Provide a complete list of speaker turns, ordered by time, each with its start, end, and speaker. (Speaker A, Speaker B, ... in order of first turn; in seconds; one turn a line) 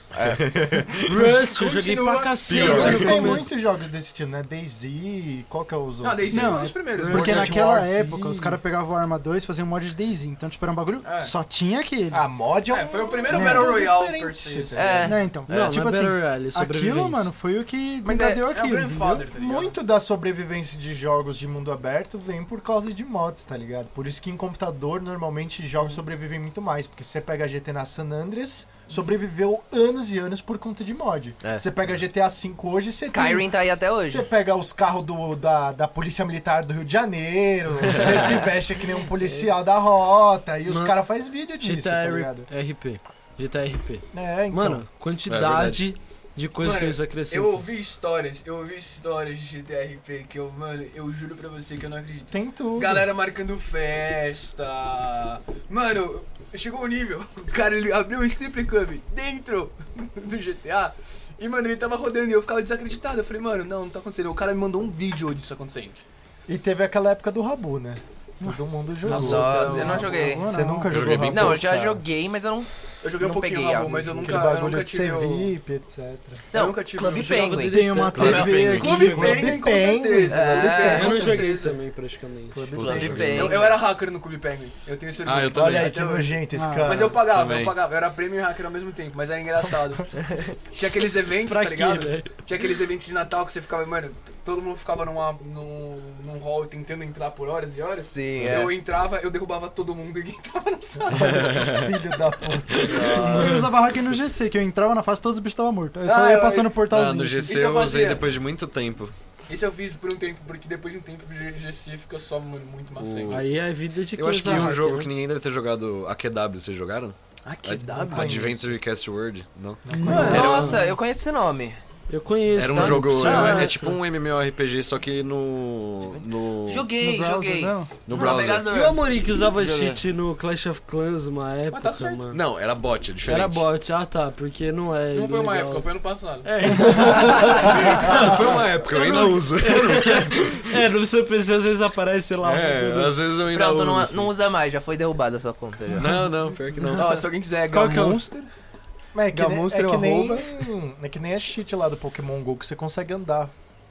Speaker A: 0.1-0.6
Speaker B: 0.2-1.3
Speaker C: 1.0-3.5
Speaker D: 1.4-2.9
Speaker B: 2.4-3.3
Speaker E: 2.5-8.6
Speaker F: 2.8-3.4
Speaker D: 6.0-7.7
Speaker F: 6.3-12.3
Speaker D: 11.0-11.3
Speaker E: 12.1-15.2
Speaker D: 12.7-15.1
Speaker F: 13.3-13.9
Speaker A: 14.7-15.7
Speaker F: 15.0-19.3
Speaker C: 15.5-17.3
Speaker D: 18.1-19.8
Speaker E: 19.3-33.5
Speaker A: 33.0-34.3
Speaker E: 34.0-42.5
Speaker A: 38.0-38.4
Speaker C: 40.7-41.0
Speaker C: 41.6-47.7
Speaker E: 44.1-44.9
Speaker B: 45.3-45.9
Speaker D: 46.6-66.0
Speaker E: 52.3-53.1
Speaker E: 66.5-72.0
Speaker F: 68.4-70.9
Speaker A: 69.0-70.5
Speaker D: 69.1-70.3
Speaker B: 70.9-71.7
Speaker A: 71.3-74.3
Speaker D: 73.0-75.5
Speaker E: 74.2-76.5
Speaker D: 76.5-77.7
Speaker A: 76.5-78.7
Speaker F: 77.0-79.3
Speaker C: 77.2-79.5
Speaker B: 78.1-79.3
Speaker D: 78.5-81.8
Speaker E: 78.8-81.5
Speaker A: 80.3-81.3
Speaker C: 80.8-83.0
Speaker E: 82.5-83.7
Speaker B: 82.7-83.6
Speaker A: 82.8-83.8
Speaker D: 83.0-101.8
Speaker B: 85.2-86.0
Speaker E: 85.5-87.3
Speaker F: 86.5-87.1
Speaker B: 87.2-87.8
Speaker C: 91.4-92.3
Speaker A: 97.9-98.7
Speaker B: 98.4-98.7
Speaker E: 101.1-103.6
Speaker B: 101.2-101.9
Speaker A: 102.8-103.5
Speaker F: 103.1-107.6
Speaker C: 103.2-103.6
Speaker D: 106.0-106.8
Speaker B: 106.8-109.1
Speaker D: 107.5-108.3
Speaker D: 109.5-113.5
Speaker B: 112.9-113.5
Speaker C: 113.3-115.1
Speaker B: 114.1-120.7
Speaker D: 117.4-118.4
Speaker E: 117.9-118.8
Speaker E: 119.8-120.5
Speaker F: 119.9-120.5
Speaker D: 120.1-120.7
Speaker A: 120.1-121.8
Speaker C: 120.3-120.9
Speaker C: 122.1-124.0
Speaker B: 122.5-126.9
Speaker F: 123.2-123.8
Speaker D: 123.3-123.8
Speaker A: 126.1-129.0
Speaker F: 126.9-127.9
Speaker B: 128.1-128.8
Speaker C: 128.5-132.4
Speaker B: 129.5-130.0
Speaker D: 131.7-132.3
Speaker B: 132.3-133.6
Speaker C: 133.2-135.9
Speaker D: 135.1-138.1
Speaker C: 136.4-143.2
Speaker A: 137.1-137.7
Speaker B: 137.3-140.7
Speaker B: 142.4-144.3
Speaker A: 143.5-146.2
Speaker B: 145.9-147.2
Speaker D: 146.9-148.5
Speaker C: 147.7-148.2
Speaker E: 149.1-153.5
Speaker D: 149.3-150.6